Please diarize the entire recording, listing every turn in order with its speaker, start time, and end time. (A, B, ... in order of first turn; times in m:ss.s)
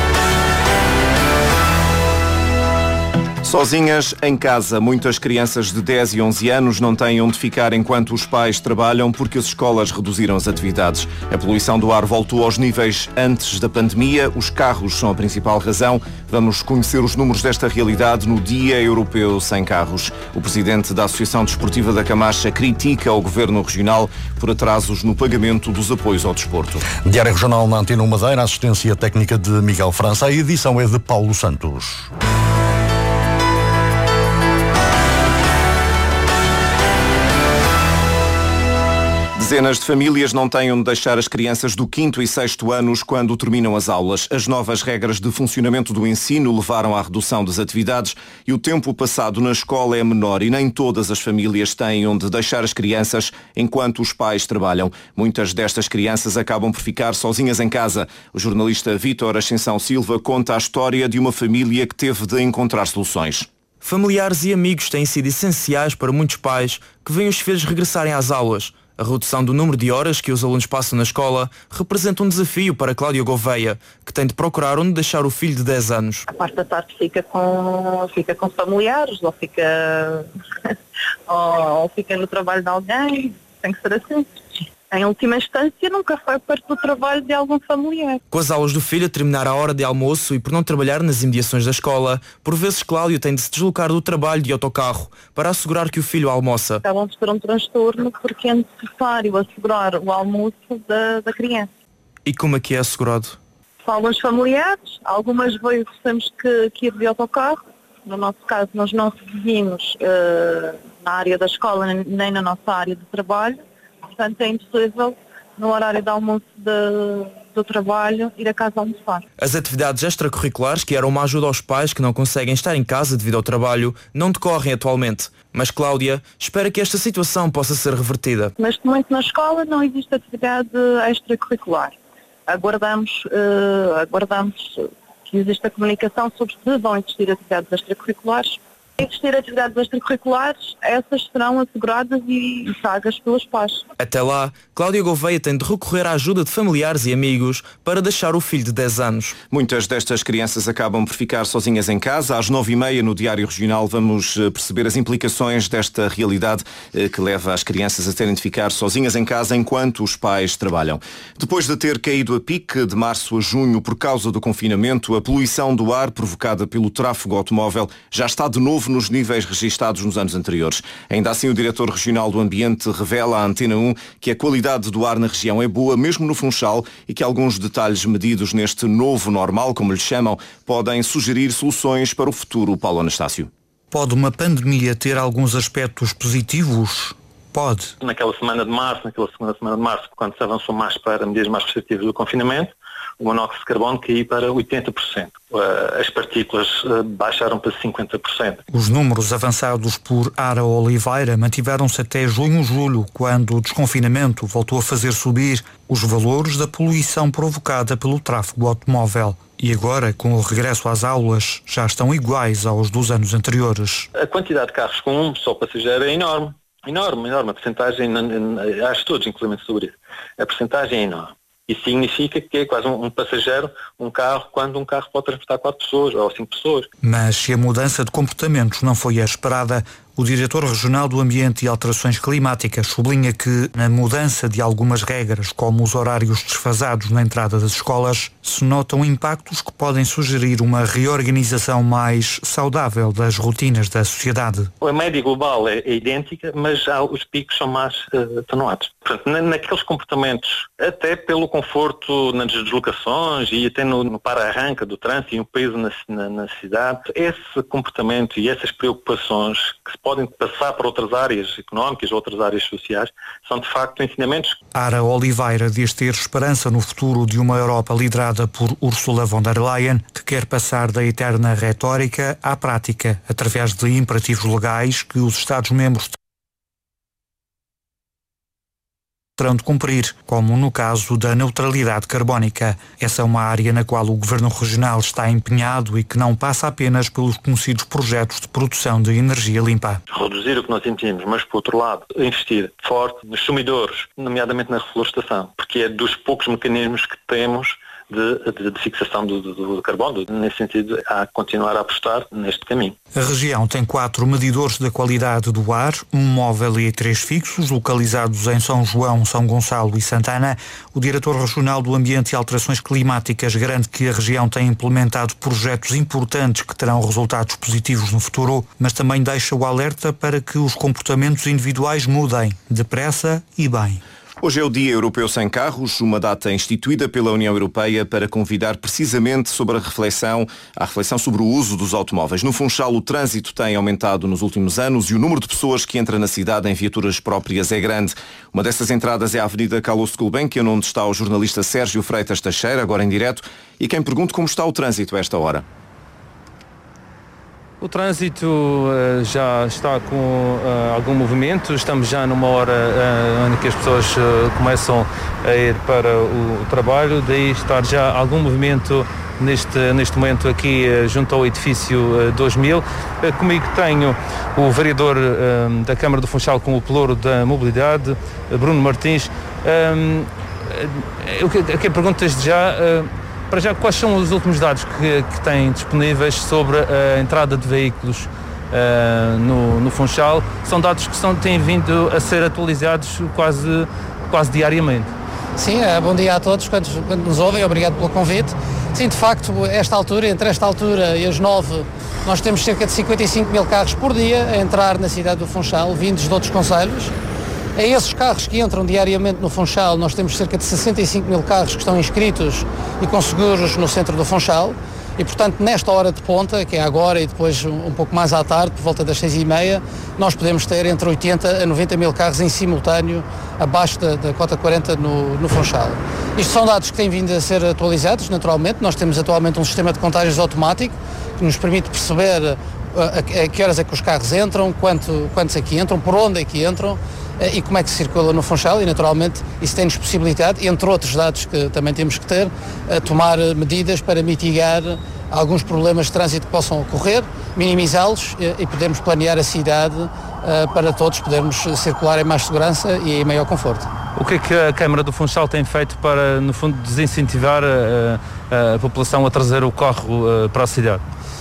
0:03.4-0:26.8 A
0:26.8-0:32.1 B
0:39.4-1:03.5 A
1:03.8-1:16.3 C
1:16.3-1:20.3 D
1:21.3-1:28.2 D
1:28.3-1:36.8 C
1:36.8-1:41.7 D
1:42.2-1:43.4 C
1:43.8-1:53.6 D
1:54.1-1:59.2 D
1:59.4-2:08.5 C
2:08.6-2:23.8 D
2:24.0-2:29.3 C
2:29.5-3:03.5 A
3:03.9-3:07.9 E
3:08.0-3:18.6 F
3:18.7-3:34.1 E
3:34.2-3:46.9 F
3:47.0-4:04.7 E
4:04.8-4:24.6 F
4:24.8-4:36.2 E
4:39.4-4:50.0 E
4:50.1-5:03.0 F
5:03.2-5:24.0 E
5:24.4-5:45.6 A
5:47.8-6:25.1 G
6:25.6-6:37.1 H
6:37.8-7:23.9 H
7:24.2-7:31.0 G